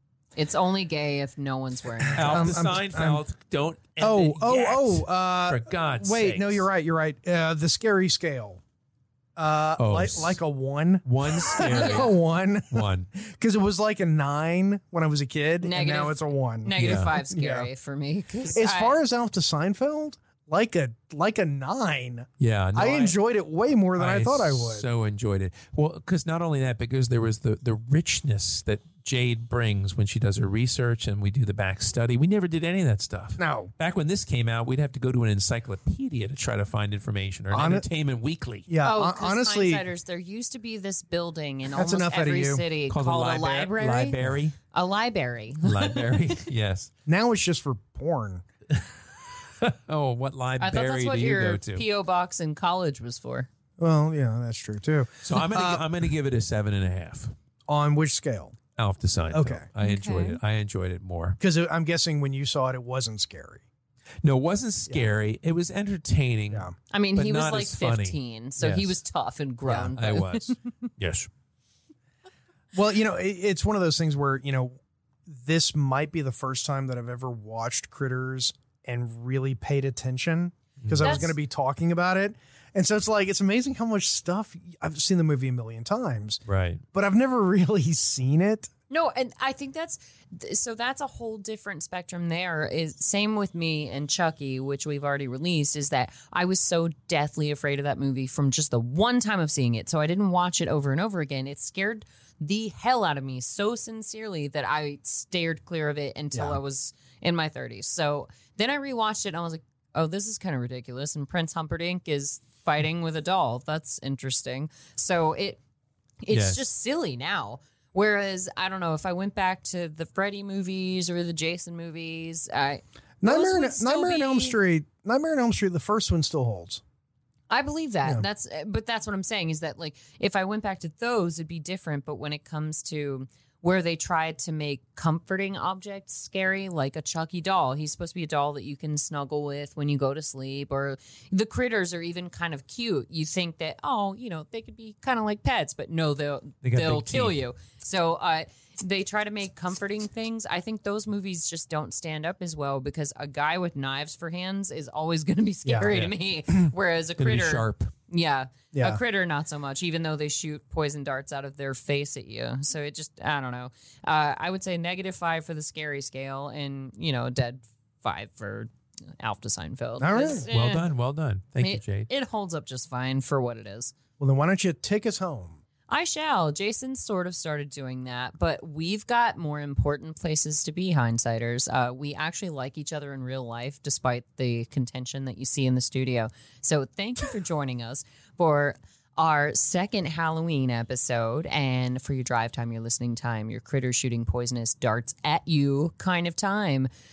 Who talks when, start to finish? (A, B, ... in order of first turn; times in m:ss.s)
0:00.4-0:02.6 A
0:02.0-0:03.2 B
0:02.2-0:06.7 C
0:04.0-0:08.6 B
0:09.4-0:17.7 B
0:09.8-0:10.4 C
0:11.0-0:12.1 C
0:12.7-0:13.1 C
0:15.6-0:19.0 A
0:16.7-0:17.2 C
0:18.5-0:24.9 B
0:22.4-0:23.2 C
0:24.0-0:38.7 C
0:33.4-0:33.7 B
0:37.5-0:37.8 B
0:38.7-0:39.8 B
0:38.8-0:44.2 A
0:41.7-0:42.6 B
0:42.9-0:44.6 C
0:44.7-0:46.4 A
0:45.6-0:46.9 C
0:47.0-0:48.4 B
0:49.6-0:51.8 C
0:50.6-0:53.5 A
0:53.8-0:55.9 B
0:55.2-0:57.3 C
0:57.7-0:58.6 B
0:58.8-1:01.4 C
0:59.3-0:59.7 B
0:59.8-1:00.4 A
1:01.4-1:03.6 B
1:04.2-1:08.9 C
1:06.5-1:06.7 B
1:06.9-1:10.6 A
1:09.6-1:09.9 B
1:09.9-1:11.3 C
1:12.7-1:26.4 B
1:20.8-1:21.2 C
1:21.0-1:21.3 A
1:26.5-1:26.8 C
1:26.9-1:28.7 B
1:28.9-1:55.6 A
1:46.3-1:46.6 B
1:56.2-2:04.6 A
1:56.3-1:56.6 C
2:03.2-2:06.8 B
2:07.5-2:50.9 A
2:26.6-2:27.4 C
2:35.6-2:36.0 B
2:37.2-2:37.9 C
2:38.7-2:39.0 B
2:50.0-2:50.5 B
2:50.5-2:52.1 C
2:51.6-2:53.9 A
2:54.2-2:55.6 B
2:55.9-3:16.9 A